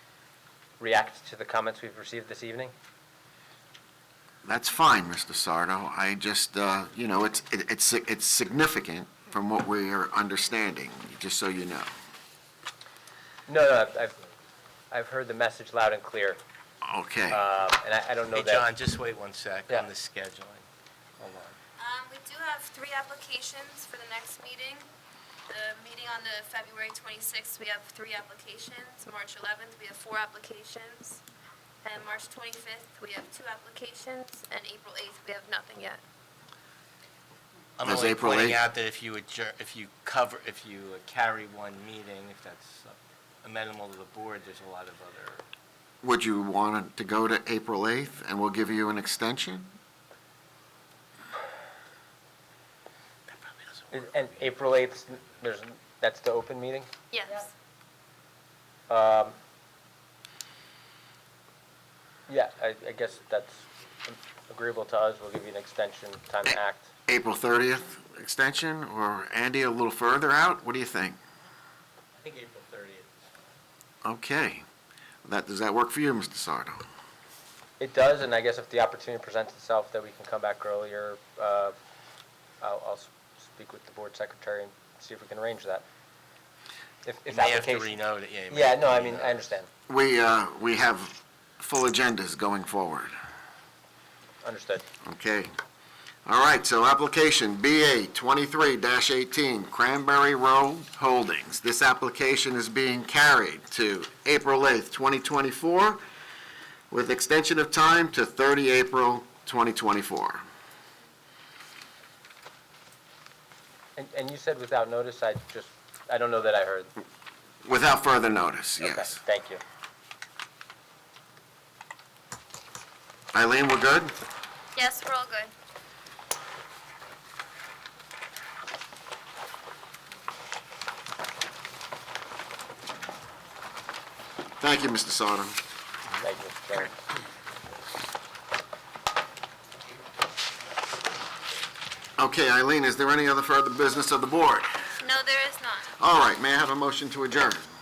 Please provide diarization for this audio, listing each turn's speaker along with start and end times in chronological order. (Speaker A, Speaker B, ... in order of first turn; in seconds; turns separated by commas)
Speaker A: 0.8-2.7, Speaker B: 4.5-11.9, Speaker A: 13.5-14.2, Speaker A: 14.9-16.4, Speaker B: 16.8-17.4, Speaker A: 17.3-18.7, Speaker C: 18.3-20.6, Speaker A: 21.2-21.6, Speaker D: 21.8-24.9, Speaker D: 25.5-31.2, Speaker D: 31.8-36.0, Speaker C: 37.8-45.4, Speaker B: 37.8-38.6, Speaker B: 46.0-49.7, Speaker C: 53.4-54.2, Speaker A: 53.9-56.9, Speaker D: 57.1-57.5, Speaker A: 58.9-59.4, Speaker A: 62.3-66.9, Speaker B: 66.5-71.2, Speaker C: 72.2-73.2, Speaker B: 74.0-74.6, Speaker B: 75.2-76.8, Speaker A: 77.8-81.8, Speaker A: 82.6-85.8, Speaker A: 87.0-89.7, Speaker C: 87.3-89.4, Speaker B: 89.9-93.1, Speaker A: 94.4-94.9, Speaker B: 95.0-95.5, Speaker B: 96.3-106.0, Speaker B: 106.9-110.4, Speaker A: 114.0-116.9, Speaker B: 117.6-119.2, Speaker A: 118.8-119.6, Speaker B: 123.3-124.1, Speaker D: 124.8-125.5, Speaker B: 134.6-135.6, Speaker A: 136.2-136.9, Speaker B: 142.2-144.9, Speaker D: 145.0-145.9, Speaker B: 146.0-147.7